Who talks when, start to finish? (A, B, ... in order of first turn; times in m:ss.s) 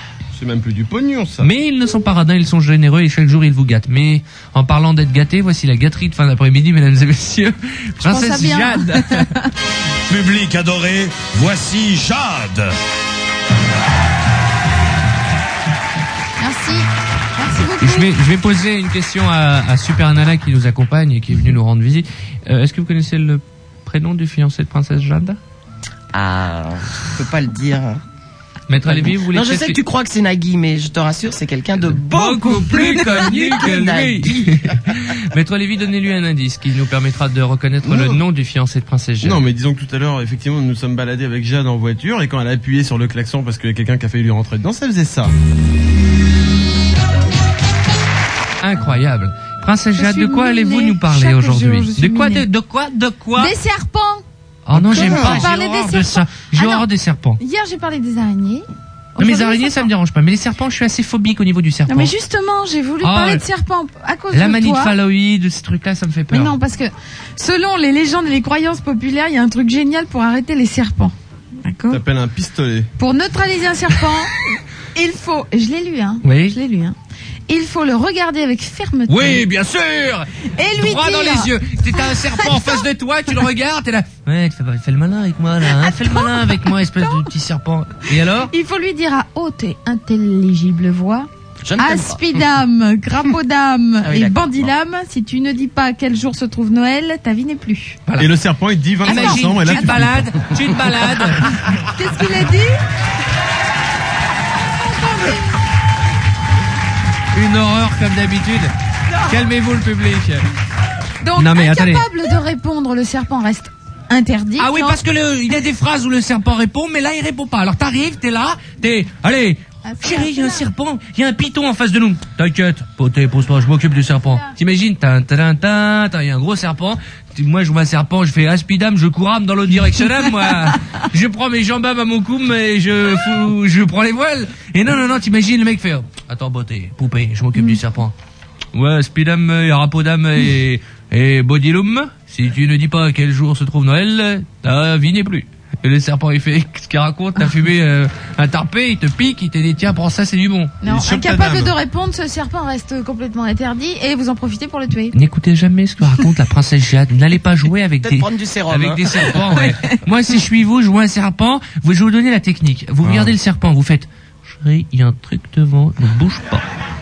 0:00.3-0:01.5 A
0:01.4-0:09.3 B
0:08.0-0:09.5 C
0:10.1-0:12.7 D
0:16.4-0:18.1 C
0:17.8-0:25.4 B
0:26.1-0:28.0 E
0:28.7-0:29.8 B
0:28.8-0:34.9 E
0:31.8-0:39.4 B
0:37.8-0:38.2 A
0:39.2-0:45.3 A
0:48.6-0:53.5 B
0:49.9-0:52.4 C
0:53.3-0:54.2 C
0:54.6-0:57.4 B
0:54.8-0:55.5 A
0:54.8-0:56.9 C
0:57.4-0:59.9 C
0:59.2-1:02.1 B
1:01.9-1:05.0 C
1:03.0-1:03.4 B
1:04.3-1:06.6 B
1:06.3-1:12.0 C
1:11.9-1:12.9 A
1:13.0-1:17.0 C
1:16.2-1:16.6 B
1:17.5-1:19.4 C
1:19.1-1:28.5 B
1:20.6-1:22.8 C
1:25.7-1:27.3 C
1:28.5-1:38.0 C
1:31.6-1:32.4 E
1:34.0-1:34.7 E
1:38.1-1:38.3 B
1:38.2-1:40.3 A
1:39.0-1:41.5 B
1:39.0-1:40.0 C
1:41.4-1:42.8 C
1:44.7-1:45.6 C
1:47.3-1:48.7 B
1:49.2-1:50.4 B
1:51.2-1:55.0 C
1:51.4-1:52.1 B
1:54.6-2:18.1 B
1:59.8-2:00.6 C
2:18.7-2:30.8 B
2:30.8-2:35.2 C
2:30.8-2:31.7 A
2:35.1-2:46.6 B
2:38.0-2:39.4 E
2:43.0-2:43.4 A